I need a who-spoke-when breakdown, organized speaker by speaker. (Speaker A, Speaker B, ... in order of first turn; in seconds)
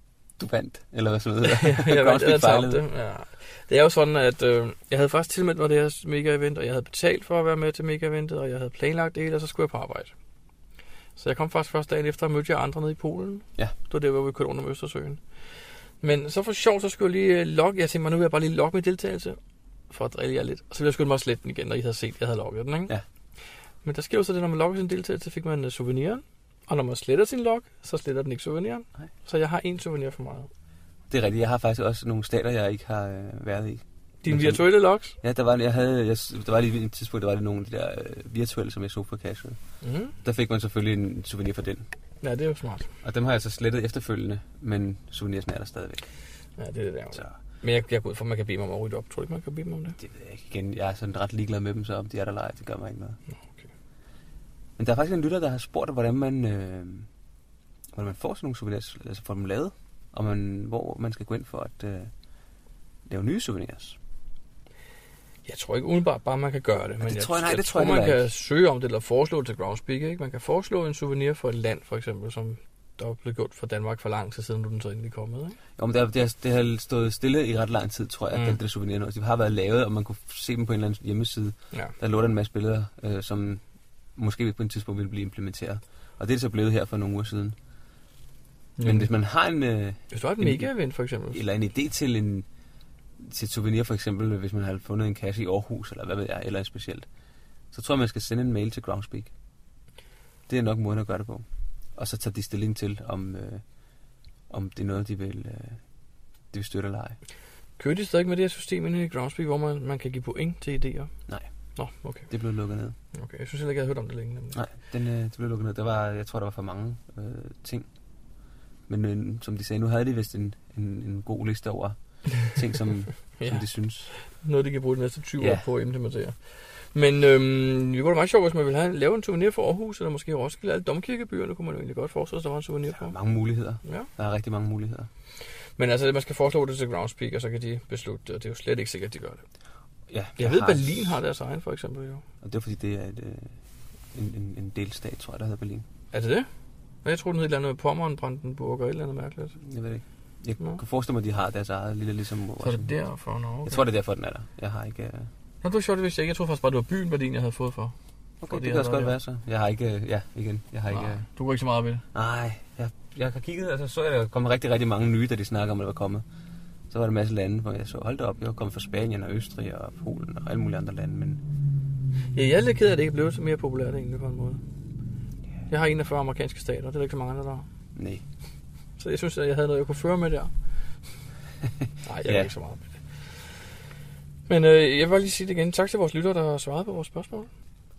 Speaker A: 0.4-2.8, 31.1-39.6, 40.2-41.9, 43.0-46.1, 50.0-53.2, 54.8-57.1, 57.9-62.1, 63.1-64.0, 67.0-68.3, 75.8-83.6, 84.2-87.6, 88.8-90.7, 91.3-92.5, 93.2-97.1, 97.7-99.3, 100.5-103.6, 104.5-105.8, 106.5-107.2, 112.3-113.0, 114.5-117.9, 118.9-124.1, 125.4-125.6, 133.0-135.1, 140.1-141.2, 142.4-143.6, 144.1-145.9, 149.6-152.9, 153.7-155.3, 158.4-161.2, 162.1-166.2, 166.9-171.4, 178.0-178.2, 182.2-182.5
Speaker B: 1.5-10.1, 11.2-15.2, 16.0-19.4, 19.9-22.9, 23.8-30.5, 34.2-35.2, 39.8-40.1, 42.2-42.9, 46.6-50.0, 65.5-75.6, 78.3-78.6, 88.8-89.1, 90.1-91.4, 107.8-111.1, 111.8-112.3, 113.1-114.6, 123.4-133.2, 135.8-139.4, 140.4-142.2, 146.1-146.5, 147.0-149.6, 152.6-153.8, 155.6-157.9, 158.5-159.2, 160.9-162.0, 172.3-174.6, 175.7-177.7, 179.0-180.5, 182.1-183.0, 184.5-187.5